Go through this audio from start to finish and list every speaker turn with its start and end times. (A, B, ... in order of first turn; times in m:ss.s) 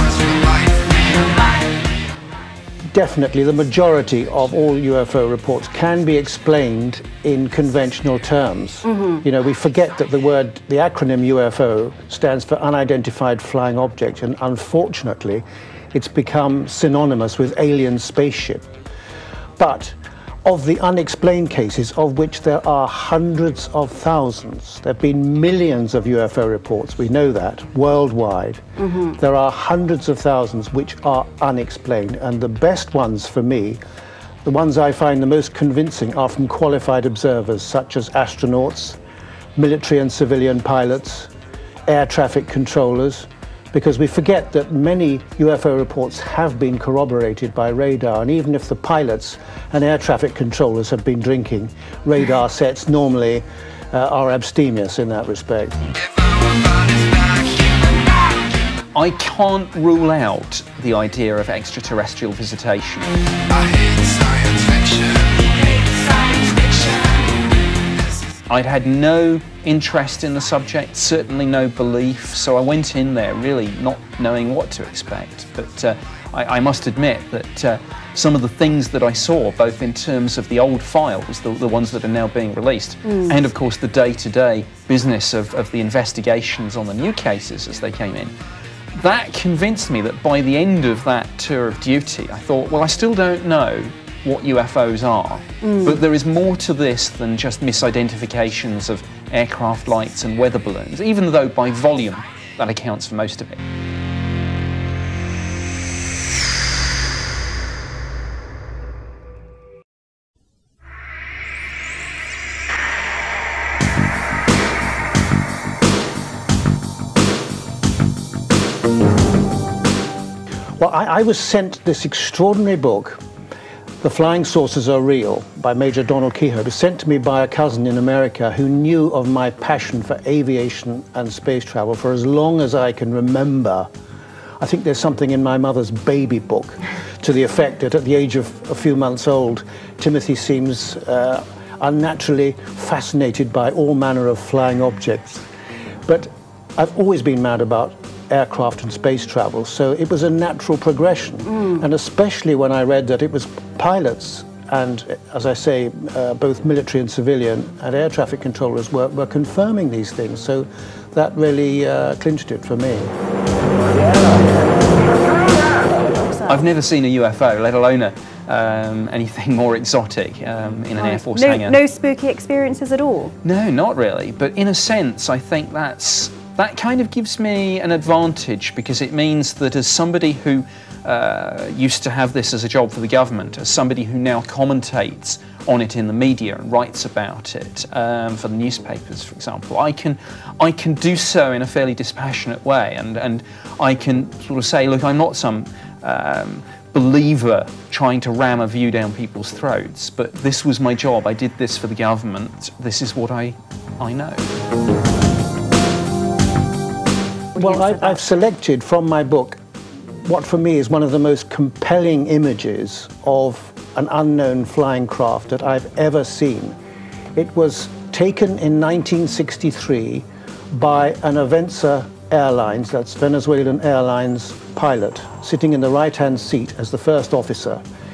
0:02.9-0:18.7 A
0:08.9-0:09.2 B
0:19.6-0:33.8 A
0:28.8-0:29.2 B
0:34.4-0:39.0 A
0:39.6-0:41.3 A
0:41.9-0:55.8 A
0:59.0-1:05.2 C
1:08.5-1:28.3 C
1:23.1-1:23.3 B
1:28.9-1:43.6 C
1:35.6-1:36.0 B
2:00.8-2:03.2 A
2:04.0-2:13.9 A
2:14.6-2:25.5 A
2:26.1-2:43.1 A
2:46.1-2:46.7 B
2:46.5-2:51.8 C
2:51.0-2:53.4 B
2:53.4-3:24.4 C
3:27.6-3:28.2 B
3:27.6-3:29.6 A
3:30.2-3:36.8 A
3:37.4-3:47.8 A